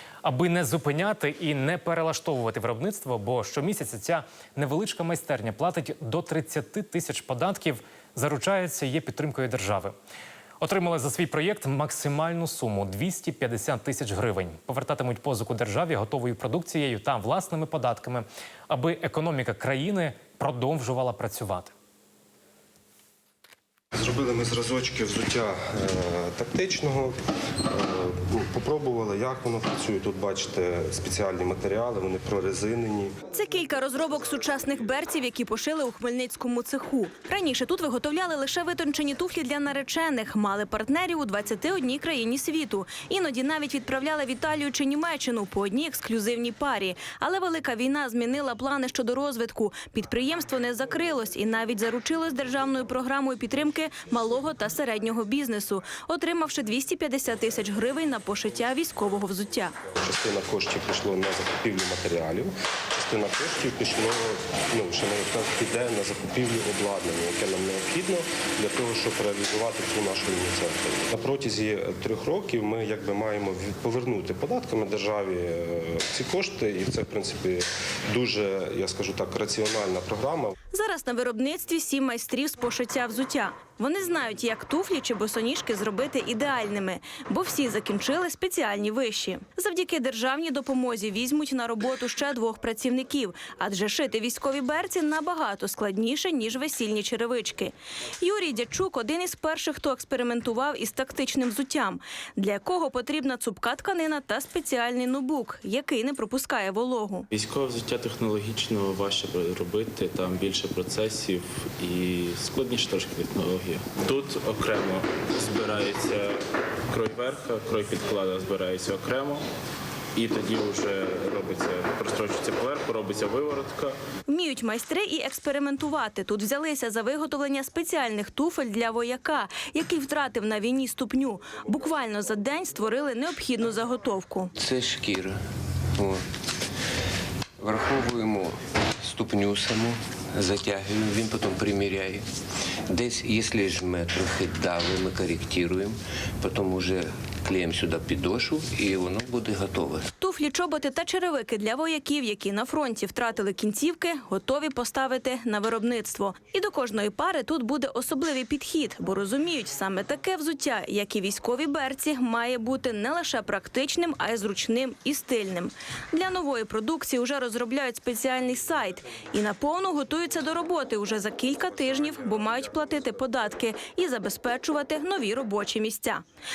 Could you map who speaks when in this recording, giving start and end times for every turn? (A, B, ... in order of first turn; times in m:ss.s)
0:00.2-0:10.0 A
0:10.6-0:21.7 A
0:24.0-0:27.2 B
0:27.7-0:33.1 B
0:33.3-0:59.8 C
1:00.0-1:20.5 B
1:20.7-1:47.3 C
1:47.3-1:56.4 D
1:56.9-1:59.4 D
2:00.2-2:04.0 D
2:04.3-2:14.5 C
2:14.6-2:15.4 E
2:16.0-2:16.2 E
2:17.6-2:22.3 E
2:22.9-2:30.1 E
2:30.2-2:56.2 C